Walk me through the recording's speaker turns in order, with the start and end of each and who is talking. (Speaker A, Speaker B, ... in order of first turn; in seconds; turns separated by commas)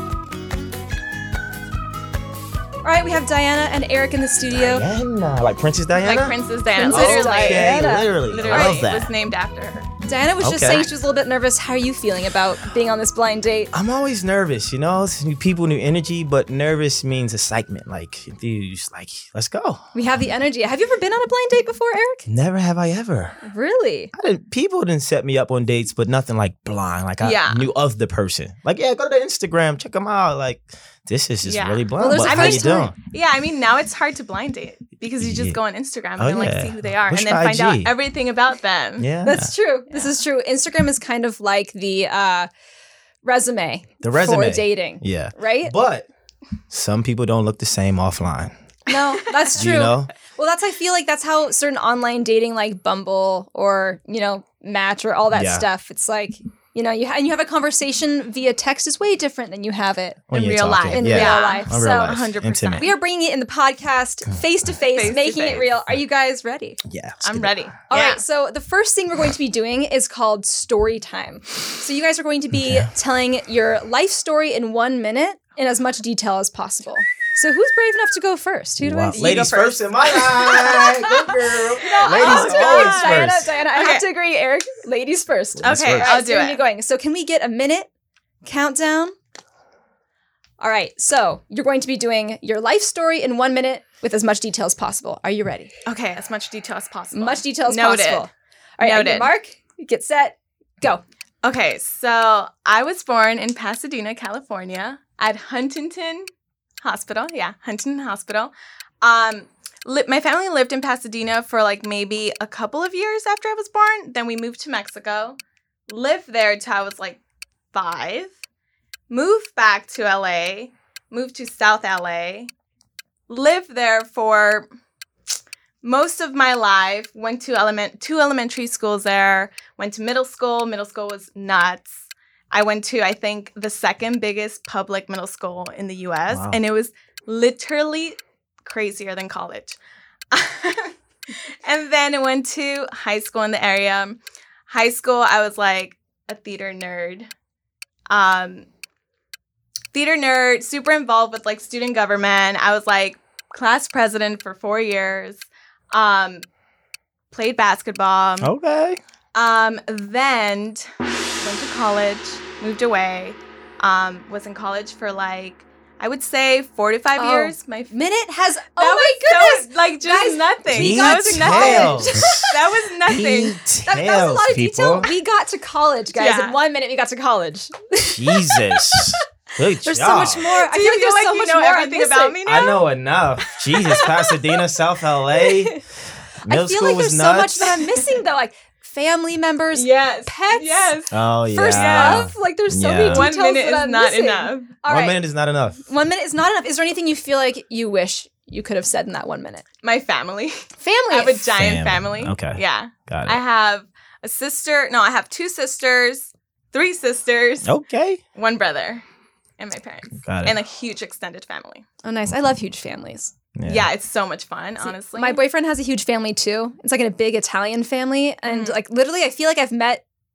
Speaker A: 2.8-4.8, Speaker B: 4.5-6.3, Speaker C: 6.0-9.9, Speaker A: 6.7-8.8, Speaker B: 6.9-9.1, Speaker A: 10.0-13.7, Speaker B: 10.4-10.9, Speaker B: 13.7-19.9, Speaker A: 19.9-22.2, Speaker B: 22.2-23.4, Speaker A: 23.4-24.1, Speaker B: 24.1-33.0, Speaker C: 27.2-27.7, Speaker C: 31.4-39.1, Speaker A: 32.0-32.9, Speaker B: 35.2-35.6, Speaker B: 36.2-37.9, Speaker B: 39.0-39.5, Speaker A: 39.2-42.5, Speaker C: 39.9-40.2, Speaker A: 43.2-45.7, Speaker B: 44.0-46.1, Speaker B: 46.7-48.5, Speaker A: 48.9-62.1, Speaker B: 49.5-50.1, Speaker B: 55.3-55.6, Speaker B: 60.3-62.9, Speaker C: 60.3-62.9, Speaker A: 62.8-66.8, Speaker C: 64.9-65.7, Speaker B: 66.8-67.6, Speaker C: 67.2-68.2, Speaker A: 67.9-79.4, Speaker B: 72.5-72.9, Speaker B: 78.8-83.5, Speaker C: 79.1-80.9, Speaker A: 80.4-81.2, Speaker A: 81.8-87.9, Speaker C: 82.0-84.0, Speaker B: 85.5-86.2, Speaker C: 85.6-86.6, Speaker A: 88.4-89.2, Speaker A: 90.6-95.7, Speaker C: 95.8-98.3, Speaker A: 97.1-101.0, Speaker C: 98.8-99.3, Speaker C: 101.4-106.3, Speaker C: 106.8-117.2, Speaker C: 117.7-118.3, Speaker C: 119.1-122.5, Speaker C: 123.3-124.7, Speaker C: 125.8-139.8, Speaker B: 136.3-136.6, Speaker C: 140.3-147.3, Speaker C: 148.1-148.7, Speaker C: 149.9-156.4, Speaker C: 157.3-158.5, Speaker B: 158.4-159.0, Speaker C: 159.3-160.9, Speaker C: 161.4-167.9, Speaker A: 167.2-172.5, Speaker C: 168.8-173.6, Speaker B: 170.7-172.5, Speaker B: 173.0-175.1, Speaker A: 173.8-179.2, Speaker C: 176.1-176.6, Speaker B: 178.0-180.5, Speaker A: 179.8-182.4, Speaker C: 180.5-182.9, Speaker B: 182.4-185.8, Speaker A: 183.8-184.4, Speaker A: 185.3-185.8, Speaker B: 186.4-187.8, Speaker A: 186.5-190.9, Speaker C: 189.7-191.2, Speaker B: 191.1-193.3, Speaker A: 191.5-195.2, Speaker C: 191.7-192.3, Speaker C: 193.1-194.7, Speaker B: 194.8-195.8, Speaker A: 195.9-199.6, Speaker C: 199.8-207.7, Speaker A: 200.8-201.5, Speaker B: 201.5-203.4, Speaker B: 207.6-208.2, Speaker C: 208.3-209.0, Speaker C: 209.6-211.8, Speaker B: 210.2-210.6, Speaker A: 212.0-213.3, Speaker B: 213.6-213.9, Speaker C: 213.6-215.4, Speaker A: 214.8-220.0, Speaker C: 218.5-218.8